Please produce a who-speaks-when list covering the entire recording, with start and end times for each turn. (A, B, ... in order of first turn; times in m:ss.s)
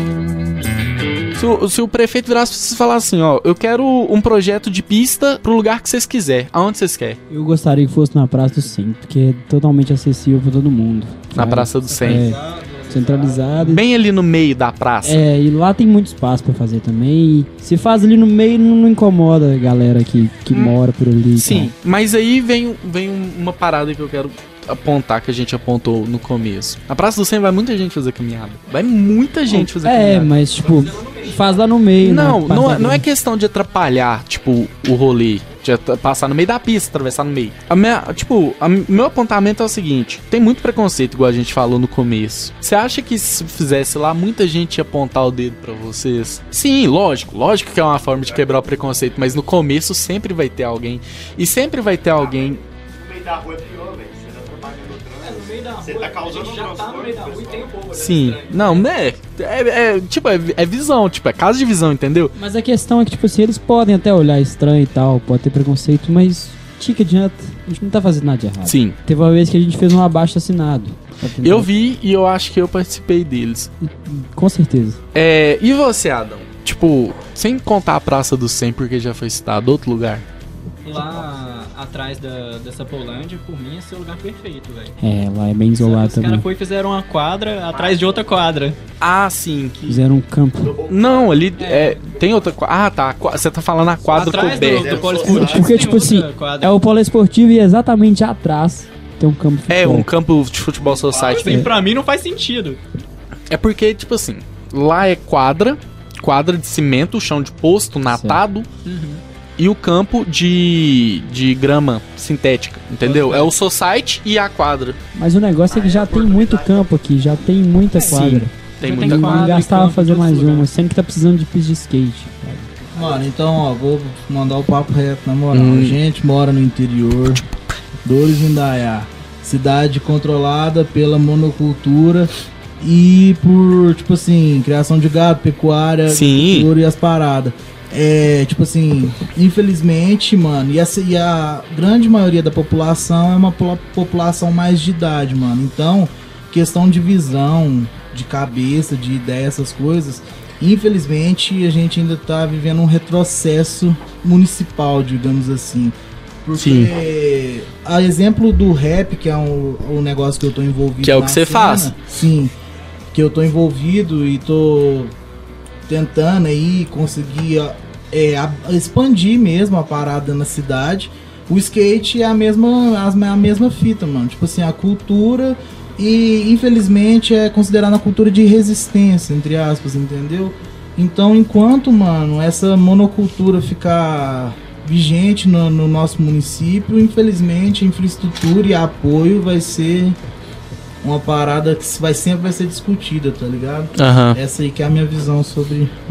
0:01.4-0:07.2 A
0:07.3-0:13.8 B
0:11.3-0:12.3 A
0:11.9-0:13.8 C
0:13.6-0:15.2 A
0:15.0-0:21.7 B
0:20.5-0:20.8 A
0:21.4-0:30.3 A
0:29.5-0:33.0 B
0:30.5-0:31.7 D
0:32.0-0:52.6 A
0:48.1-0:49.1 E
0:52.2-0:57.7 E
0:55.2-0:58.9 D
0:57.9-1:02.4 A
1:02.4-1:11.7 B
1:08.6-1:09.0 A
1:11.4-1:13.7 A
1:13.8-1:15.0 B
1:15.1-1:20.2 A
1:20.8-1:25.0 D
1:25.0-1:26.5 B
1:25.8-1:28.8 D
1:27.7-1:28.3 E
1:29.0-1:29.8 A
1:29.9-1:30.8 B
1:30.6-1:31.5 E
1:30.9-1:35.3 A
1:31.6-1:32.1 D
1:34.1-1:35.8 E
1:34.1-1:36.8 D
1:35.2-1:40.1 B
1:39.7-1:41.7 A
1:40.8-1:41.4 E
1:41.2-1:42.8 D
1:43.5-1:48.7 A
1:48.1-1:48.4 B
1:48.8-1:49.2 D
1:49.6-1:55.0 A
1:53.0-1:53.5 D
1:55.2-2:02.7 B
1:55.7-1:56.9 E
1:57.9-2:00.7 D
1:58.0-1:59.6 A
2:03.0-2:07.4 C
2:05.5-2:06.0 A
2:08.0-2:42.5 C
2:16.1-2:16.7 A
2:36.6-2:36.9 A
2:41.0-2:41.9 A
2:43.1-2:45.1 C
2:45.9-3:10.2 C
3:11.0-3:16.0 C
3:14.0-3:14.4 A